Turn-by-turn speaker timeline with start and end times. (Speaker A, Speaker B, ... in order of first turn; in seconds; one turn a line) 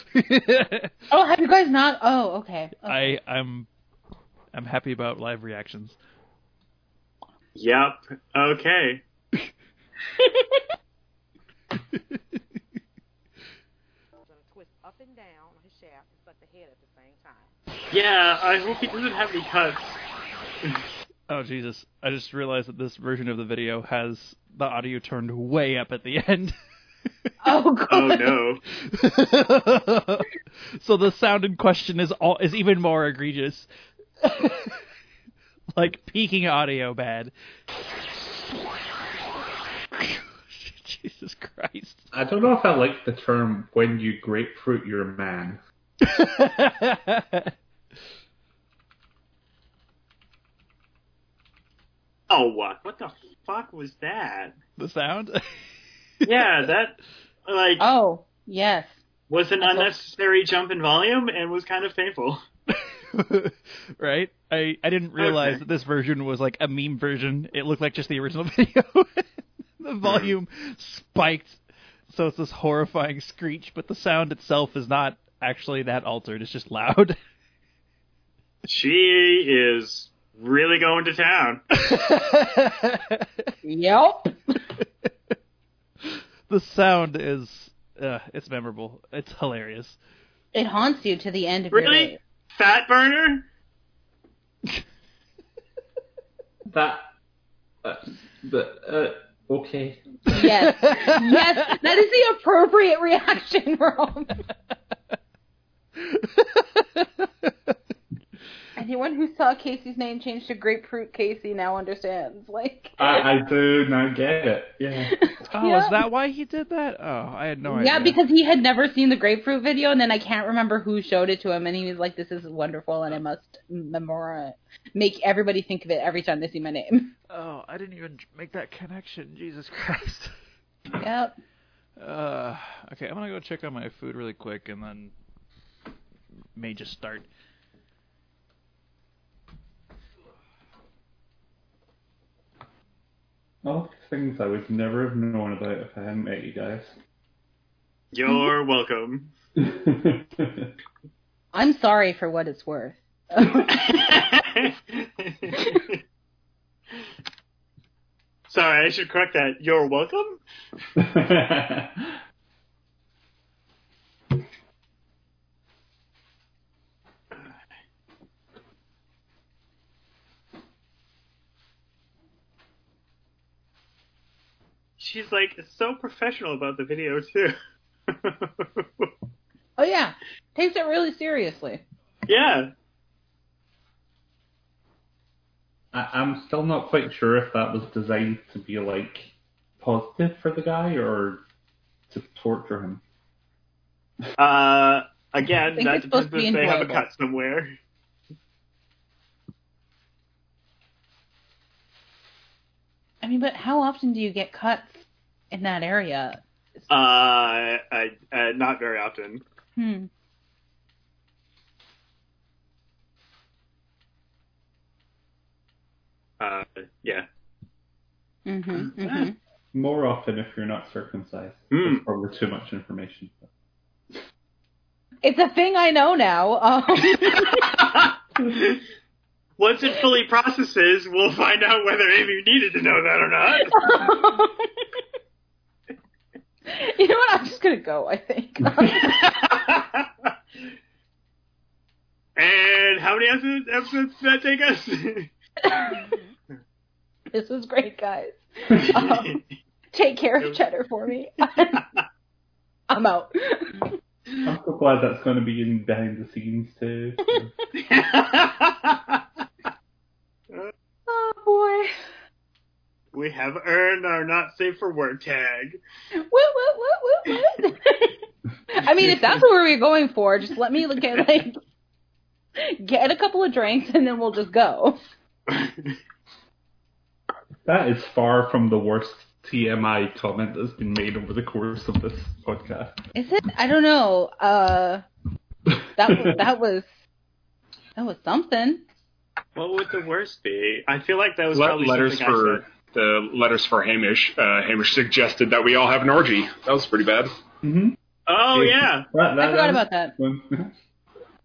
Speaker A: 0.1-0.9
Speaker B: 1.1-3.2
Speaker A: 2.8-3.7
Speaker A: 4.5-6.0
Speaker C: 7.5-9.0
Speaker A: 11.9-12.2
Speaker D: 14.2-17.5
Speaker C: 17.9-20.0
Speaker A: 21.3-26.6
Speaker B: 27.4-28.4
Speaker C: 27.9-28.6
Speaker A: 28.7-33.7
Speaker A: 34.2-34.8
Speaker A: 35.8-37.3
Speaker A: 39.9-42.1
Speaker E: 42.1-45.6
Speaker A: 46.0-47.5
Speaker C: 52.3-54.6
Speaker A: 54.8-55.4
Speaker C: 56.2-57.9
Speaker B: 57.8-59.0
Speaker C: 59.3-62.4
Speaker B: 59.6-59.9
Speaker A: 62.7-69.3
Speaker C: 65.2-65.6
Speaker A: 69.8-77.2
Speaker C: 70.0-70.3
Speaker C: 78.7-81.6
Speaker A: 81.8-83.5
Speaker B: 83.6-84.6
Speaker A: 86.0-90.0
Speaker B: 90.5-92.2
Speaker C: 91.7-93.5
Speaker E: 96.7-97.1
Speaker E: 97.8-100.2
Speaker B: 100.3-104.4
Speaker A: 100.3-101.4
Speaker A: 106.0-107.8
Speaker B: 108.8-113.2
Speaker E: 113.0-115.2
Speaker B: 115.1-116.0
Speaker A: 115.5-118.2
Speaker B: 117.7-127.1
Speaker A: 127.3-130.3
Speaker B: 131.0-131.4
Speaker A: 132.0-135.1
Speaker A: 136.6-137.3
Speaker E: 143.6-147.0
Speaker C: 148.1-149.3
Speaker E: 149.6-150.7
Speaker B: 151.5-154.2
Speaker C: 153.7-156.0
Speaker C: 158.5-160.4
Speaker E: 161.0-162.2
Speaker C: 175.0-177.5
Speaker C: 178.1-179.1
Speaker B: 179.8-181.8
Speaker C: 182.3-182.7
Speaker E: 185.9-191.4
Speaker E: 192.1-193.0
Speaker C: 194.4-197.8
Speaker B: 195.8-197.1
Speaker B: 203.2-206.4
Speaker C: 206.9-209.4
Speaker B: 209.8-210.1
Speaker C: 216.4-217.3
Speaker B: 218.5-219.4
Speaker C: 219.0-219.3
Speaker E: 219.7-223.5
Speaker C: 221.7-222.0
Speaker B: 225.2-227.8
Speaker C: 227.5-228.8
Speaker C: 229.6-233.9
Speaker B: 233.6-234.8
Speaker B: 236.7-239.4
Speaker C: 239.0-240.1
Speaker C: 242.4-245.3
Speaker B: 245.6-246.2
Speaker B: 247.3-249.4
Speaker C: 248.9-249.4
Speaker B: 249.9-251.9
Speaker B: 252.9-253.9
Speaker E: 254.4-257.5
Speaker C: 257.8-259.2
Speaker B: 261.1-261.9
Speaker C: 263.1-265.8
Speaker B: 266.2-268.2
Speaker B: 268.7-271.6
Speaker B: 272.6-275.0
Speaker C: 275.5-276.0
Speaker E: 277.7-283.0
Speaker B: 283.1-285.0
Speaker B: 286.0-286.9
Speaker E: 286.0-286.5
Speaker B: 288.0-288.8
Speaker C: 289.6-292.6
Speaker F: 291.5-297.4
Speaker E: 297.6-298.0
Speaker C: 298.3-299.1
Speaker E: 298.5-300.7
Speaker B: 299.4-300.1